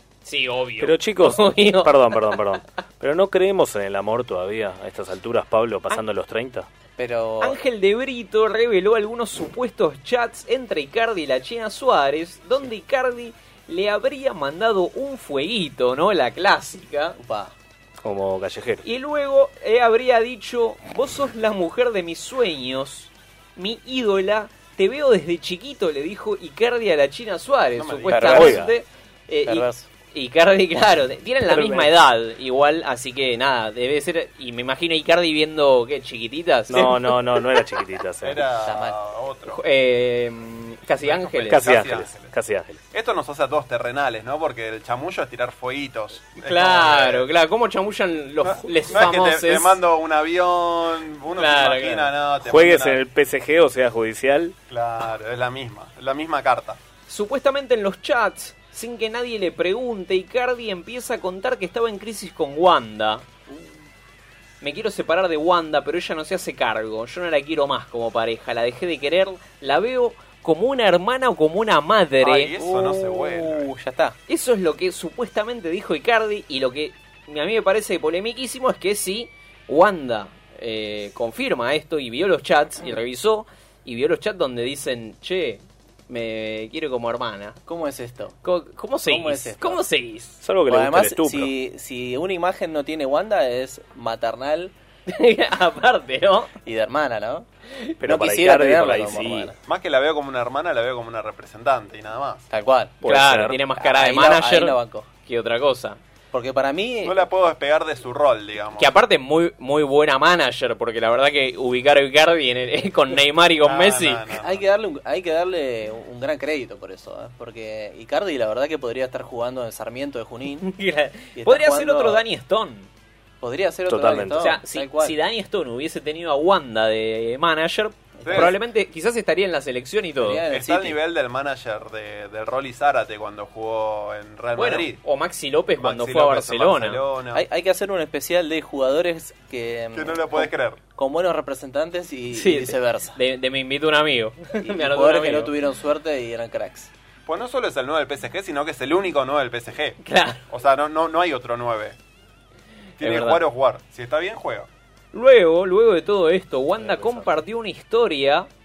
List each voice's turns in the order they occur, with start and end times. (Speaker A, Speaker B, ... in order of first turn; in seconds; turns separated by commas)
Speaker A: 0.2-2.2, Speaker B: 0.8-6.7, Speaker C: 7.0-7.6, Speaker A: 7.4-17.2, Speaker C: 17.2-17.6, Speaker B: 18.0-18.8, Speaker A: 18.8-37.1, Speaker D: 27.8-28.6, Speaker C: 28.1-28.6, Speaker B: 28.2-28.7, Speaker C: 29.5-29.9, Speaker B: 31.5-31.9, Speaker B: 36.7-38.4, Speaker D: 38.2-39.6, Speaker C: 38.6-39.0, Speaker A: 39.5-41.6, Speaker D: 41.0-42.3, Speaker B: 41.5-42.8, Speaker D: 42.9-47.2, Speaker A: 46.4-49.8, Speaker D: 48.5-53.0, Speaker A: 51.3-52.1, Speaker B: 52.4-54.5, Speaker D: 54.7-56.8, Speaker A: 57.1-63.2, Speaker A: 64.6-72.5, Speaker D: 72.3-73.7, Speaker C: 72.3-74.2, Speaker A: 74.3-87.6, Speaker C: 87.7-88.4, Speaker A: 88.4-90.4, Speaker C: 89.1-89.8, Speaker B: 90.4-91.5, Speaker C: 90.7-94.7, Speaker A: 95.1-96.5, Speaker C: 96.6-97.5, Speaker B: 98.0-99.5, Speaker C: 98.0-99.6, Speaker D: 99.7-102.5, Speaker C: 102.5-102.9, Speaker B: 103.0-103.6, Speaker A: 103.0-106.0, Speaker C: 103.8-105.1, Speaker C: 106.3-107.2, Speaker D: 107.0-108.9, Speaker A: 108.8-114.2, Speaker D: 113.6-114.6, Speaker C: 114.4-120.7, Speaker A: 120.6-122.9, Speaker C: 121.3-122.2, Speaker C: 123.4-125.2, Speaker B: 123.9-124.5, Speaker A: 124.4-130.4, Speaker C: 128.2-128.6, Speaker D: 128.2-128.6, Speaker C: 130.2-131.0, Speaker D: 130.4-135.0, Speaker A: 134.6-137.0, Speaker D: 135.8-137.4, Speaker C: 137.3-143.2, Speaker D: 139.9-140.8, Speaker A: 142.3-145.5, Speaker C: 144.6-146.9, Speaker D: 147.2-150.0, Speaker A: 150.0-150.4, Speaker D: 150.5-152.0, Speaker A: 153.0-153.4, Speaker D: 153.0-154.7, Speaker A: 155.1-158.5, Speaker B: 156.8-157.3